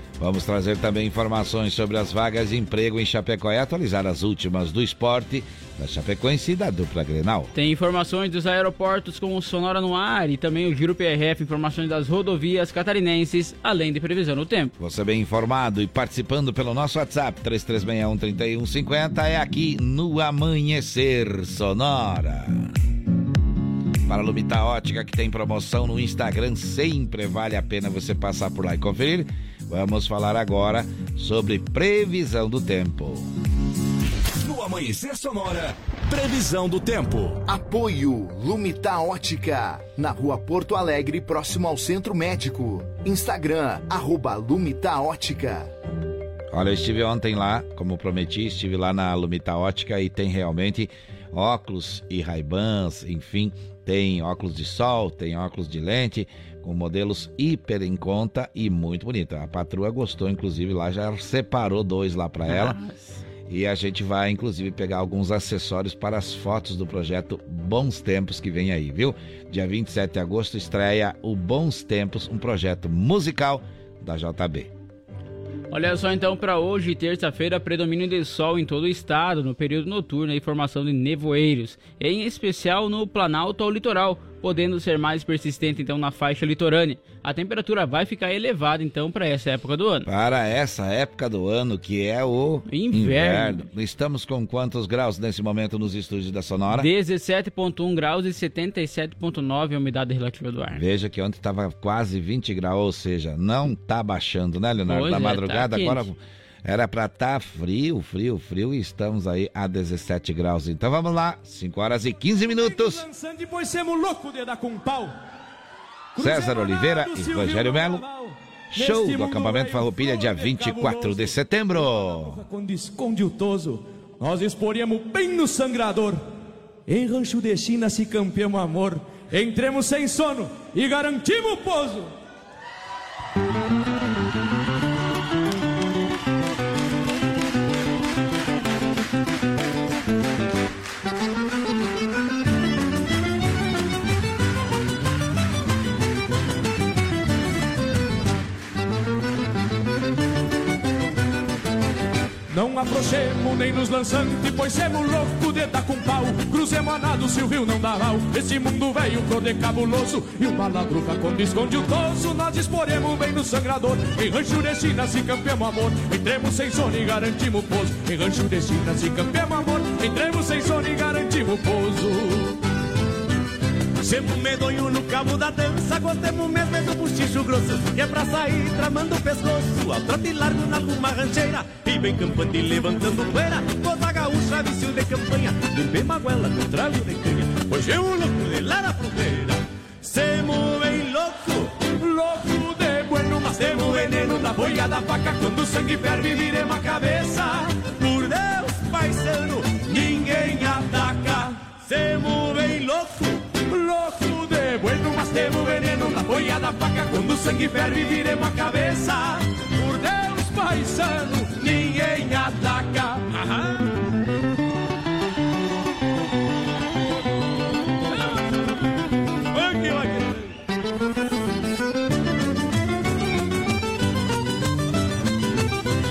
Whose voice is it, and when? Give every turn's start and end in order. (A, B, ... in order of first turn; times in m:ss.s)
0:00.2-0:07.5 A
0:07.5-0:14.7 B
0:14.8-0:22.7 A
0:24.1-0:33.3 A
0:34.4-0:37.4 C
0:37.5-0:45.7 D
0:46.5-1:02.8 A
1:02.5-1:03.2 B
1:03.5-1:14.7 A
1:15.7-1:30.1 B
1:30.1-1:36.9 A
1:32.7-1:33.7 B
1:36.7-1:40.8 B
1:40.8-1:53.0 A
1:44.9-1:46.1 B
1:52.7-1:55.2 E
1:56.2-2:01.4 E
1:56.2-1:58.0 A
1:58.7-2:02.4 A
2:01.9-2:06.2 E
2:06.9-2:12.1 E
2:32.5-2:52.6 E
2:54.0-3:11.7 F
3:07.7-3:08.1 E
3:12.0-3:17.8 E
3:18.8-3:19.4 F
3:19.7-3:21.8 E
3:23.0-3:23.3 F
3:23.7-3:33.4 E
3:39.6-3:40.4 E